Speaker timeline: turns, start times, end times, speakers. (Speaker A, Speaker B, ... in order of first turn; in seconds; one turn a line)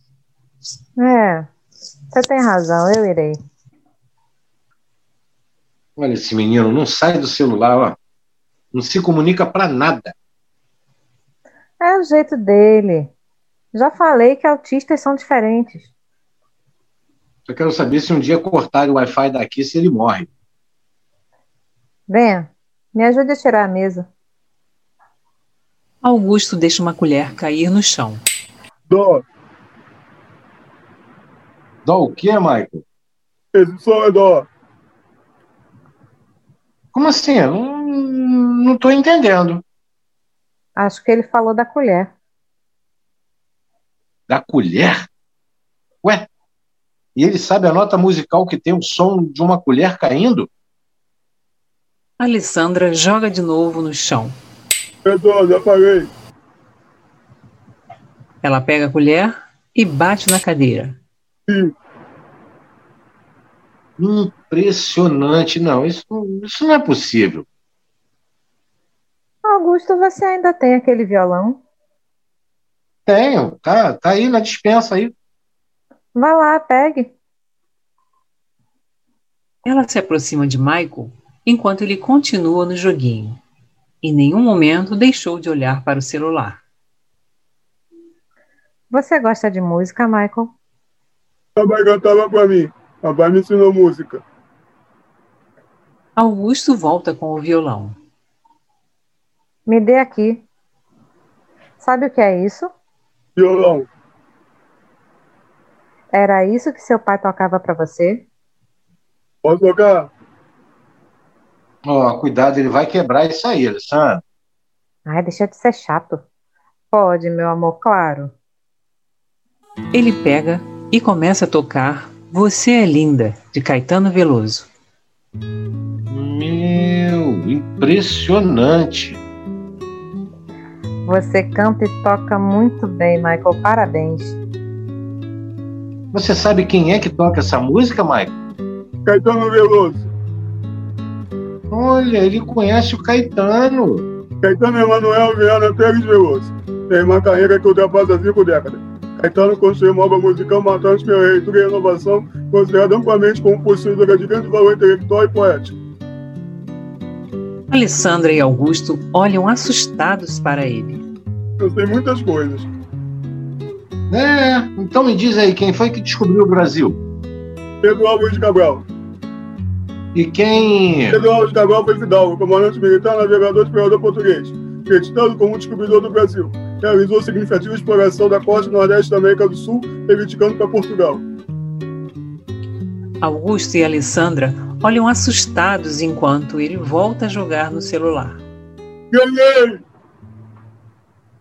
Speaker A: 1.0-1.5
Speaker A: 2.1-3.4
Speaker B: 6.0-8.0
Speaker B: 8.7-10.1
Speaker A: 11.8-13.1
Speaker A: 13.7-15.9
Speaker B: 17.4-20.3
Speaker A: 22.1-24.1
Speaker C: 26.0-28.2
Speaker D: 28.9-29.2
Speaker B: 31.8-32.8
Speaker D: 33.5-34.5
Speaker B: 36.9-39.6
Speaker A: 40.8-42.1
Speaker B: 44.3-45.1
Speaker B: 46.0-46.3
Speaker B: 47.1-50.5
Speaker C: 52.2-54.4
Speaker D: 55.0-56.1
Speaker C: 58.4-61.0
Speaker D: 61.5-61.7
Speaker B: 64.0-67.4
Speaker A: 69.4-71.6
Speaker B: 73.1-75.1
Speaker A: 76.1-77.1
Speaker C: 79.6-83.4
Speaker C: 84.0-86.6
Speaker A: 88.9-90.5
Speaker D: 91.5-94.2
Speaker C: 96.2-98.0
Speaker A: 99.7-100.4
Speaker A: 101.8-102.7
Speaker D: 103.4-103.9
Speaker A: 106.1-108.2
Speaker D: 109.4-110.1
Speaker B: 111.8-114.2
Speaker A: 115.1-116.2
Speaker A: 116.9-118.3
Speaker C: 119.9-124.7
Speaker B: 126.1-129.2
Speaker A: 131.1-134.4
Speaker B: 136.1-138.3
Speaker D: 139.1-140.1
Speaker B: 141.7-144.0
Speaker D: 144.4-155.8
Speaker C: 157.7-161.0
Speaker D: 161.6-162.7
Speaker B: 164.1-167.0
Speaker D: 167.8-168.8
Speaker B: 170.1-171.2
Speaker D: 171.1-181.2
Speaker C: 183.2-188.4
Speaker D: 189.1-189.8